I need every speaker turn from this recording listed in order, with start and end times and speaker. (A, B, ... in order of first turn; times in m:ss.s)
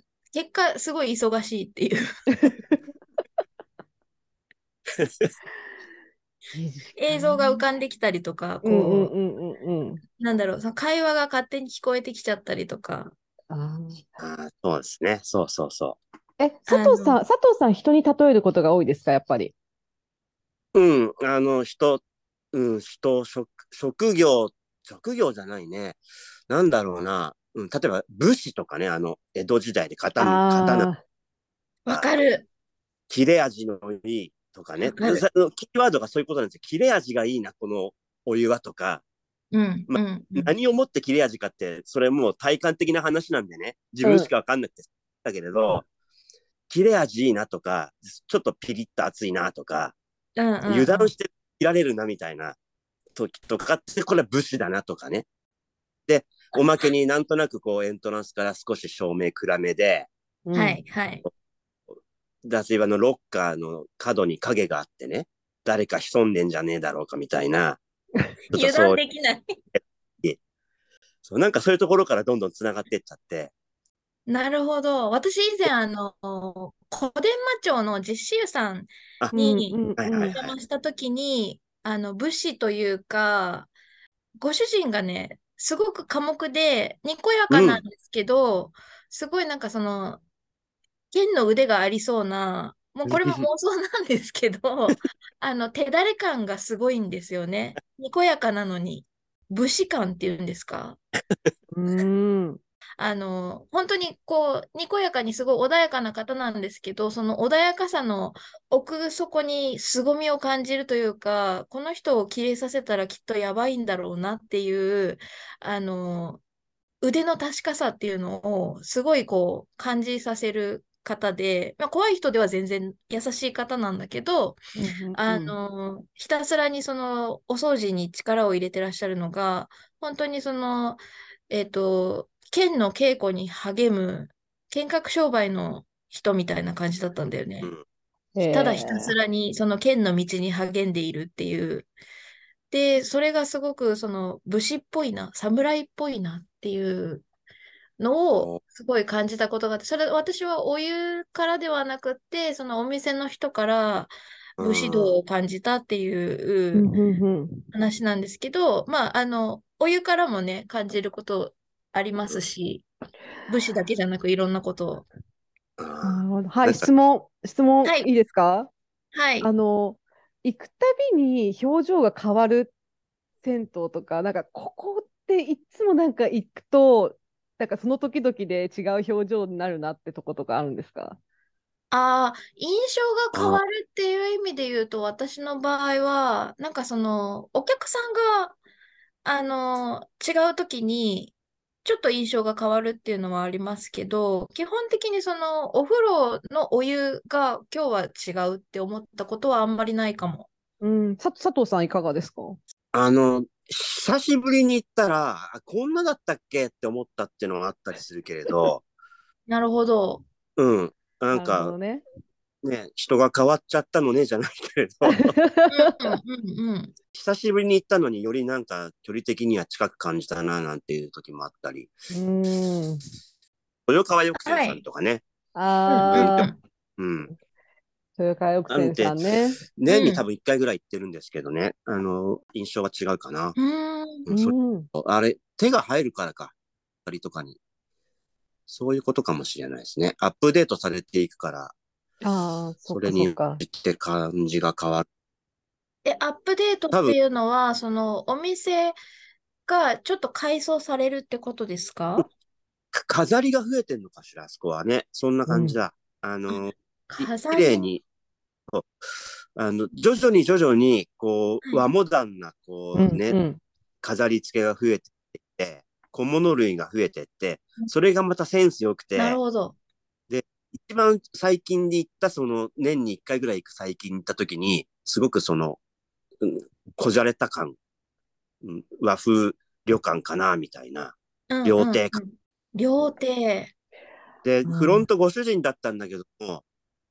0:00.3-0:02.0 A
0:02.4-0:02.8 B
0:05.0-0:05.3 C
0:06.5-0:07.6 B
0:07.0-0:09.1 A
0:08.6-0:10.0 B
0:10.2-0:13.1 A
0:13.5-0:14.1 B
0:14.2-0:16.0 C
0:16.4-0:19.5 B
0:16.7-0:17.2 A
0:20.7-0:26.0 C
0:26.5-0:30.9 C
0:30.2-0:31.0 B
0:31.8-0:32.4 A
0:33.1-0:39.0 C
0:34.9-0:35.2 A
0:39.5-0:40.5 A
0:39.9-0:45.9 C
0:44.0-0:44.3 B
0:46.7-0:49.9 C
0:50.4-0:51.1 A
0:50.6-0:52.6 C
0:53.1-0:55.2 C
0:56.1-1:00.1 C
1:00.4-1:00.8 B
1:00.5-1:01.2 A
1:02.4-1:07.8 C
1:08.5-1:09.0 C
1:08.5-1:09.6 A
1:09.7-1:10.4 C
1:11.2-1:13.5 C
1:14.3-1:23.7 A
1:19.3-1:20.4 B
1:20.0-1:20.5 C
1:24.4-1:30.2 A
1:27.5-1:27.8 C
1:31.1-1:41.0 A
1:33.0-1:33.5 C
1:41.7-1:42.6 B
1:43.0-1:56.4 A
1:57.0-2:04.6 A
2:04.7-2:05.6 B
2:05.1-2:17.7 A
2:18.3-2:19.2 B
2:18.5-2:21.9 A
2:22.7-2:27.2 A
2:28.0-2:36.9 A
2:34.6-2:35.2 C
2:36.7-2:37.6 B
2:37.7-2:42.8 A
2:43.5-2:45.1 A
2:45.8-2:46.9 C
2:46.0-2:48.7 B
2:49.1-2:49.5 A
2:49.4-2:52.7 B
2:53.4-3:01.2 B
3:01.9-3:08.6 A
3:03.3-3:03.6 C
3:09.2-3:20.5 A
3:20.8-3:22.6 B
3:22.9-3:28.8 C
3:29.5-3:30.2 A
3:30.6-3:31.7 C
3:31.3-3:32.0 B
3:32.6-3:35.3 C
3:35.0-3:36.0 B
3:35.7-3:36.9 A
3:37.1-3:41.9 C
3:42.1-3:43.0 B
3:43.9-3:45.2 C
3:44.4-3:44.8 A
3:45.5-3:46.5 B
3:45.9-3:46.6 A
3:47.0-3:47.3 C
3:48.2-3:49.6 B
3:48.7-3:49.1 C
3:49.6-3:53.6 C
3:49.9-3:50.2 A
3:53.6-3:54.3 A
3:54.2-3:56.5 C
3:54.3-3:54.9 B
3:57.0-3:57.6 C
3:58.7-4:01.7 C
4:02.2-4:03.6 B
4:02.9-4:05.0 C
4:06.0-4:09.0 A
4:09.6-4:12.3 A
4:12.9-4:18.0 C
4:15.5-4:15.8 B
4:17.1-4:17.9 A
4:19.6-4:23.4 C
4:22.9-4:23.6 B
4:24.0-4:29.4 C
4:29.1-4:29.8 A
4:30.3-4:35.8 C
4:36.4-4:37.8 C
4:38.6-4:42.2 C
4:41.5-4:43.7 A
4:44.4-4:46.6 C
4:44.6-4:45.0 B